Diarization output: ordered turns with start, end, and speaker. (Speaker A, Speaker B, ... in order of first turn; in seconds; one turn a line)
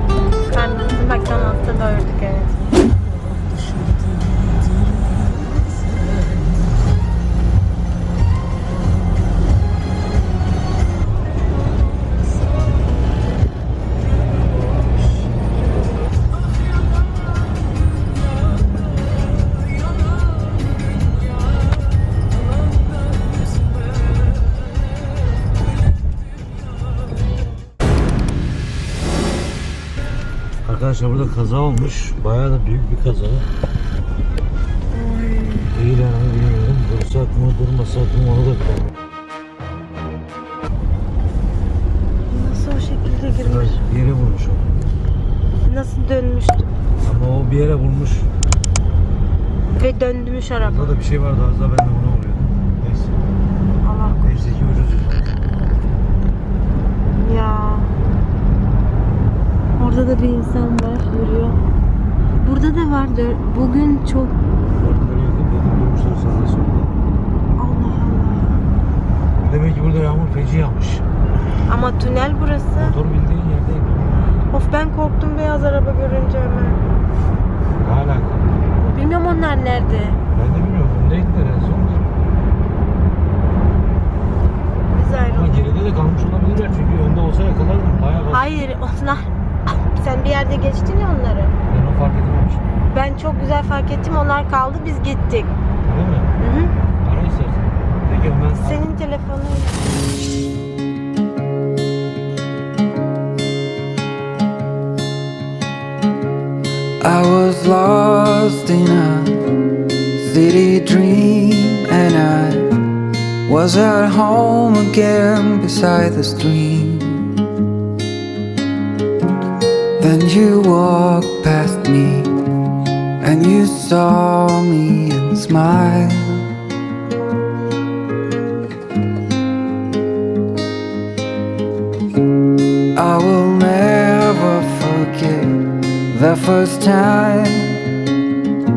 Speaker A: 0.4-2.6
Speaker B: 30.6-33.5
Speaker A: 34.9-35.7
Speaker B: 35.7-38.9
Speaker A: 42.3-43.8
Speaker B: 43.3-44.7
Speaker A: 45.6-46.7
Speaker B: 47.0-48.3
Speaker A: 49.8-51.0
Speaker B: 50.6-53.2
Speaker A: 53.8-54.5
Speaker B: 54.2-55.3
Speaker A: 57.2-57.9
Speaker A: 59.8-61.6
Speaker A: 62.4-64.4
Speaker B: 64.8-66.9
Speaker A: 67.6-68.7
Speaker B: 69.4-71.0
Speaker A: 71.7-73.0
Speaker B: 72.8-74.2
Speaker A: 74.5-76.8
Speaker B: 77.8-78.6
Speaker A: 78.8-80.2
Speaker B: 80.3-82.1
Speaker A: 84.9-85.6
Speaker B: 85.3-88.5
Speaker A: 88.3-89.3
Speaker A: 89.8-91.5
Speaker B: 91.7-92.7
Speaker A: 92.9-95.5
Speaker B: 95.8-96.3
Speaker A: 96.4-96.7
Speaker B: 97.0-98.8
Speaker A: 98.6-99.8
Speaker C: 107.0-112.9
Speaker C: 113.5-117.3
Speaker C: 120.0-122.3
Speaker C: 123.2-126.5
Speaker C: 132.9-137.9